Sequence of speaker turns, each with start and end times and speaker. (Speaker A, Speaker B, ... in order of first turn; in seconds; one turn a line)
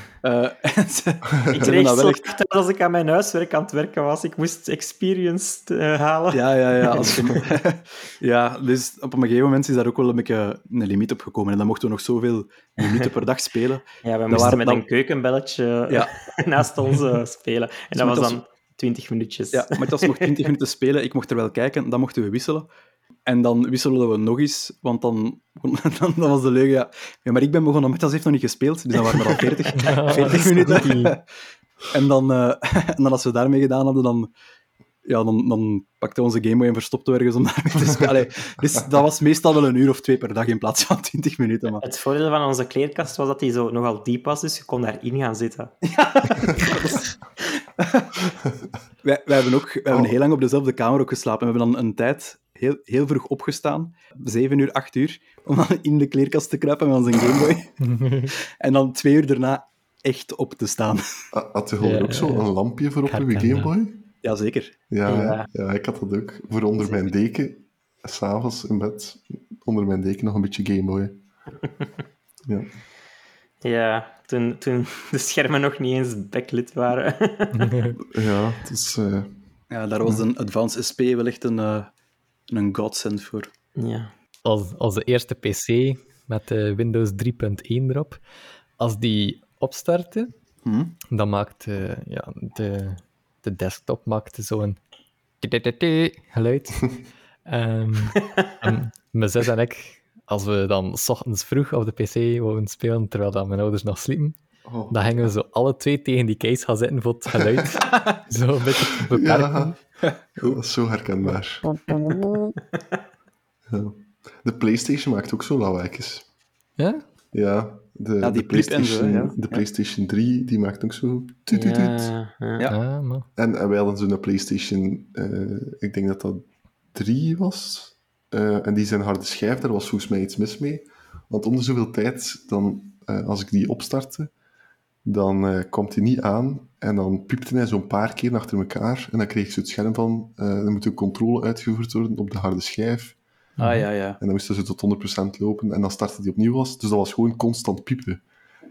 Speaker A: 0.2-2.3
Speaker B: 1.5-7.3
Speaker A: 6.3-14.8
Speaker B: 14.0-20.5
Speaker A: 18.0-18.4
Speaker A: 19.5-22.7
Speaker A: 23.3-31.2
Speaker C: 29.7-31.2
Speaker A: 31.9-34.3
Speaker A: 35.0-41.8
Speaker B: 41.8-45.8
Speaker A: 45.8-48.4
Speaker A: 49.0-57.7
Speaker C: 57.8-58.3
Speaker A: 58.3-61.0
Speaker D: 61.3-64.1
Speaker C: 61.8-62.5
Speaker C: 63.1-63.7
Speaker A: 64.2-64.8
Speaker D: 64.9-71.2
Speaker B: 65.1-65.5
Speaker B: 73.6-77.8
Speaker C: 77.5-78.0
Speaker D: 78.0-79.4
Speaker A: 79.7-81.9
Speaker A: 82.5-83.5
Speaker B: 83.8-84.1
Speaker C: 84.4-88.2
Speaker C: 88.8-90.3
Speaker A: 90.7-91.0
Speaker C: 91.1-94.8
Speaker C: 95.4-104.4
Speaker D: 104.7-105.3
Speaker C: 104.9-109.8
Speaker A: 107.9-108.2
Speaker D: 109.1-109.8
Speaker A: 110.0-110.6
Speaker D: 110.4-111.9
Speaker D: 113.7-116.3
Speaker C: 116.8-117.0
Speaker D: 117.3-122.1
Speaker A: 118.2-119.6
Speaker B: 121.5-122.7
Speaker C: 122.7-123.3
Speaker D: 123.4-134.3
Speaker D: 135.1-143.2
Speaker C: 143.6-143.9
Speaker A: 143.6-144.2
Speaker D: 144.2-148.2